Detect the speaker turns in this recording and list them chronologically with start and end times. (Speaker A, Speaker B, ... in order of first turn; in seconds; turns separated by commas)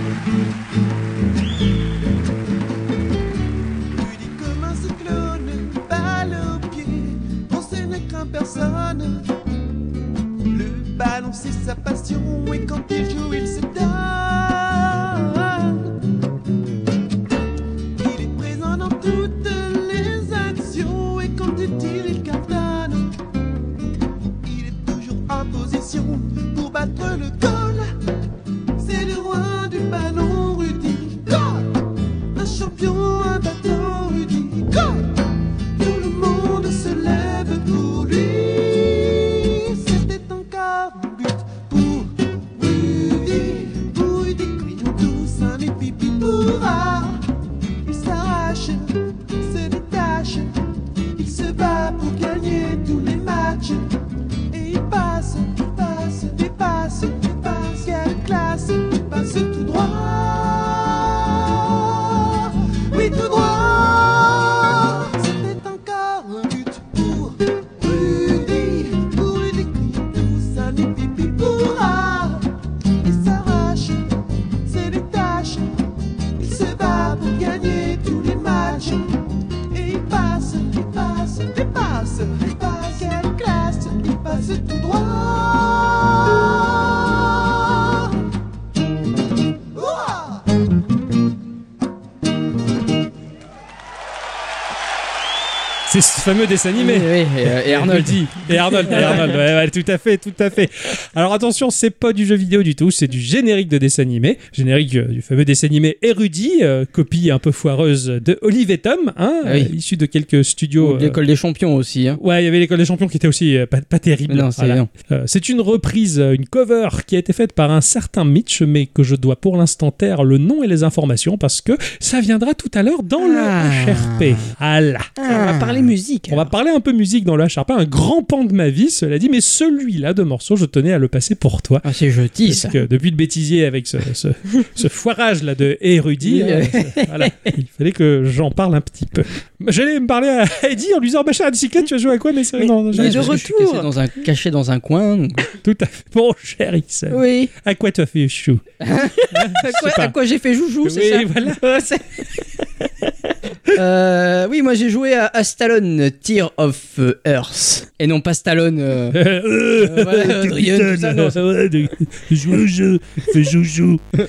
Speaker A: 3.9-9.3, Speaker A: 10.5-15.8, Speaker A: 18.0-23.1, Speaker A: 24.4-27.9, Speaker A: 28.8-31.8, Speaker A: 32.3-35.2, Speaker A: 35.8-47.2, Speaker A: 47.8-50.5, Speaker A: 51.1-53.9, Speaker A: 54.5-72.5, Speaker A: 73.0-74.1, Speaker A: 74.6-75.7, Speaker A: 76.4-79.1, Speaker A: 79.7-88.1, Speaker A: 89.8-90.2, Speaker B: 95.9-111.2, Speaker C: 96.8-99.3, Speaker C: 109.4-109.7, Speaker C: 110.8-112.2, Speaker B: 112.2-125.1, Speaker C: 114.3-114.9, Speaker C: 123.2-124.4, Speaker C: 125.2-125.9, Speaker D: 125.3-126.5, Speaker B: 126.3-131.8, Speaker C: 131.8-132.8, Speaker B: 132.5-143.4, Speaker C: 136.2-137.5, Speaker C: 142.9-145.5, Speaker D: 142.9-143.9, Speaker B: 145.6-148.6, Speaker C: 147.1-147.5, Speaker C: 148.8-152.0, Speaker B: 149.3-150.1, Speaker B: 150.8-151.6, Speaker C: 153.7-159.2, Speaker B: 159.1-164.0, Speaker C: 159.8-161.4